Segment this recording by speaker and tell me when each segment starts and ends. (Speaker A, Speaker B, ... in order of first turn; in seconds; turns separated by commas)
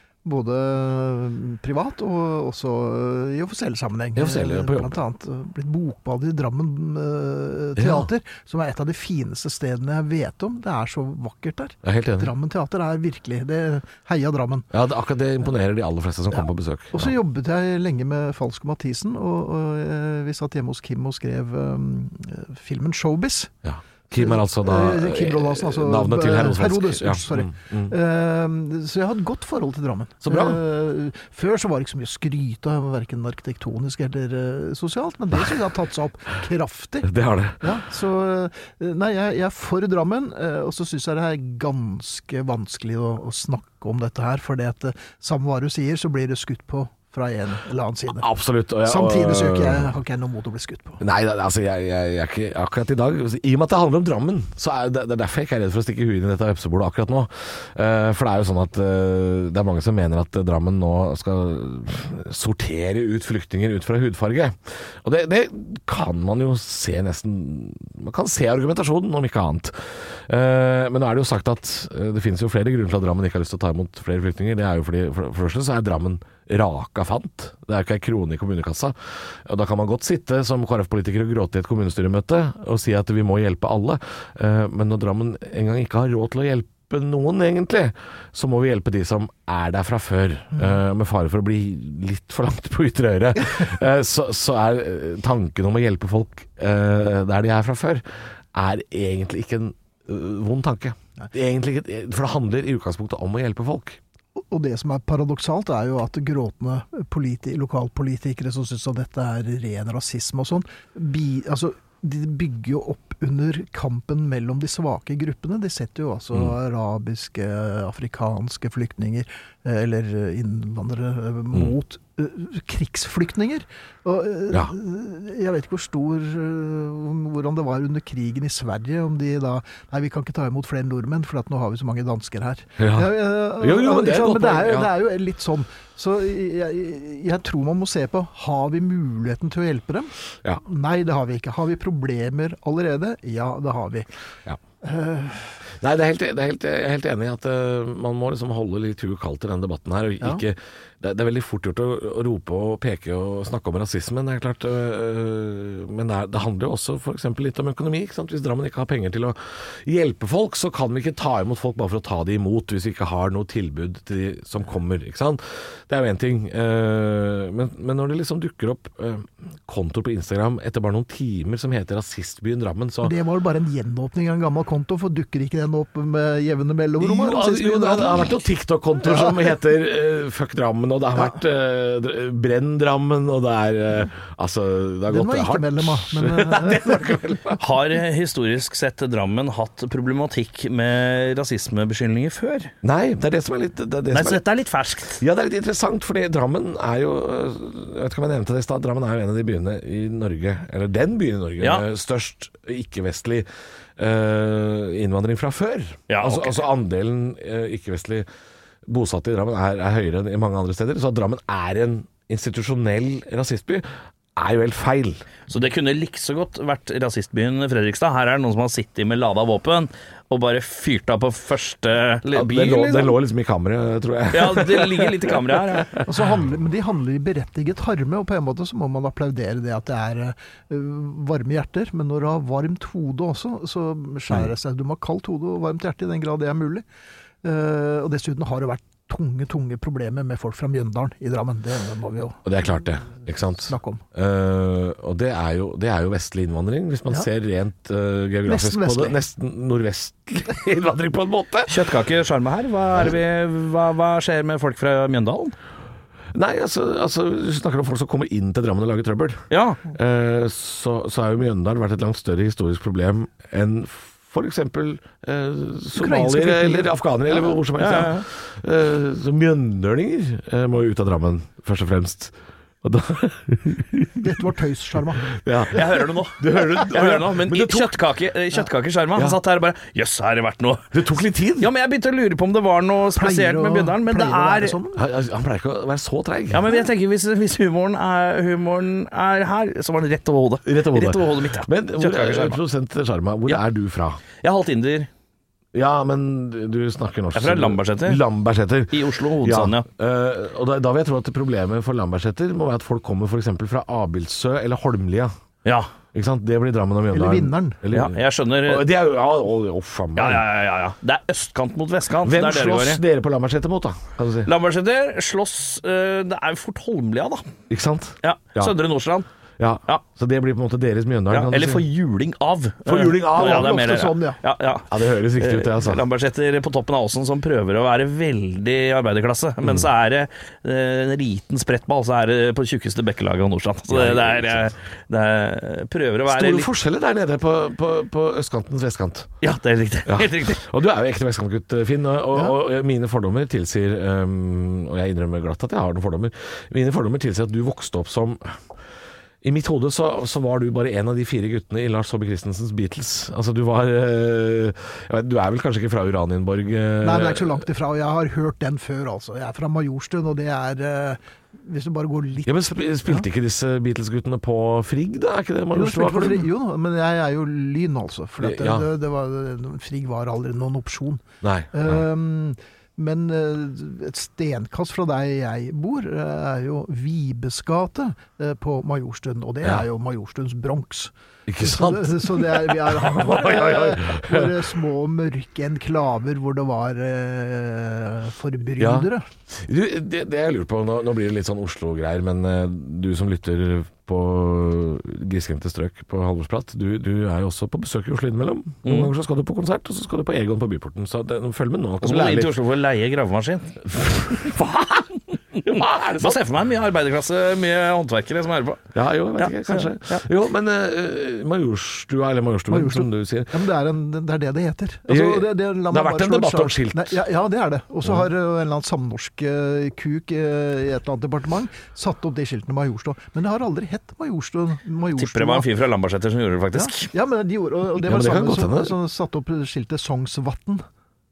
Speaker A: 0.2-14.7, Speaker B: 4.2-4.9, Speaker B: 7.8-8.1, Speaker B: 11.8-12.3, Speaker B: 14.7-17.1, Speaker A: 16.3-23.5, Speaker B: 23.6-27.9, Speaker A: 24.1-37.1, Speaker B: 30.2-30.6, Speaker B: 37.0-37.7, Speaker A: 37.6-48.3, Speaker B: 48.1-49.9, Speaker A: 48.8-51.0, Speaker B: 51.0-104.0, Speaker A: 104.4-144.1, Speaker B: 132.8-134.9, Speaker A: 144.8-145.6, Speaker B: 145.8-173.1, Speaker A: 173.0-178.4, Speaker B: 177.0-187.6, Speaker A: 179.0-179.5, Speaker A: 185.1-187.2, Speaker C: 187.6-192.7, Speaker B: 192.8-194.4, Speaker C: 194.1-195.2, Speaker B: 195.2-203.4, Speaker B: 204.0-208.2, Speaker C: 206.1-206.6, Speaker B: 208.8-213.8, Speaker B: 214.3-215.2, Speaker C: 215.5-223.2, Speaker B: 222.3-226.1, Speaker C: 224.3-226.0, Speaker A: 226.0-236.8, Speaker A: 237.4-242.4, Speaker B: 242.4-251.8, Speaker A: 243.6-244.0, Speaker A: 248.4-249.2, Speaker C: 251.7-255.5, Speaker B: 256.3-274.3, Speaker C: 259.5-259.8, Speaker A: 265.9-266.9, Speaker C: 267.8-268.2, Speaker A: 274.2-275.2, Speaker B: 275.2-278.0, Speaker C: 275.7-280.9, Speaker B: 280.9-281.7, Speaker C: 281.6-284.8, Speaker A: 283.1-285.0, Speaker B: 284.9-286.7, Speaker C: 286.5-292.6, Speaker B: 290.6-294.2, Speaker C: 294.4-295.1, Speaker B: 295.7-305.3, Speaker C: 297.3-298.2, Speaker C: 298.9-299.8, Speaker B: 306.1-310.4, Speaker A: 307.1-307.8, Speaker C: 307.9-308.9, Speaker C: 310.2-313.0, Speaker B: 312.2-314.5, Speaker C: 314.4-317.5, Speaker B: 317.7-318.7, Speaker C: 318.2-319.3, Speaker B: 319.6-321.8, Speaker C: 321.3-336.7, Speaker B: 322.9-323.8, Speaker A: 323.0-324.4, Speaker B: 324.9-326.0, Speaker B: 329.6-329.9, Speaker B: 333.9-334.7, Speaker B: 336.3-339.3, Speaker C: 339.4-340.7, Speaker B: 340.1-348.6, Speaker B: 349.4-357.6, Speaker A: 357.0-363.2, Speaker B: 362.4-366.5, Speaker A: 365.7-389.3, Speaker B: 368.4-368.9, Speaker B: 371.4-372.0, Speaker B: 381.5-384.6, Speaker B: 388.8-402.6, Speaker C: 398.8-399.1, Speaker C: 402.0-403.8, Speaker B: 403.8-406.4, Speaker C: 405.6-410.2, Speaker B: 408.9-413.5, Speaker A: 412.7-425.7, Speaker B: 415.1-417.2, Speaker C: 425.2-427.1, Speaker A: 426.7-430.8, Speaker B: 428.0-428.9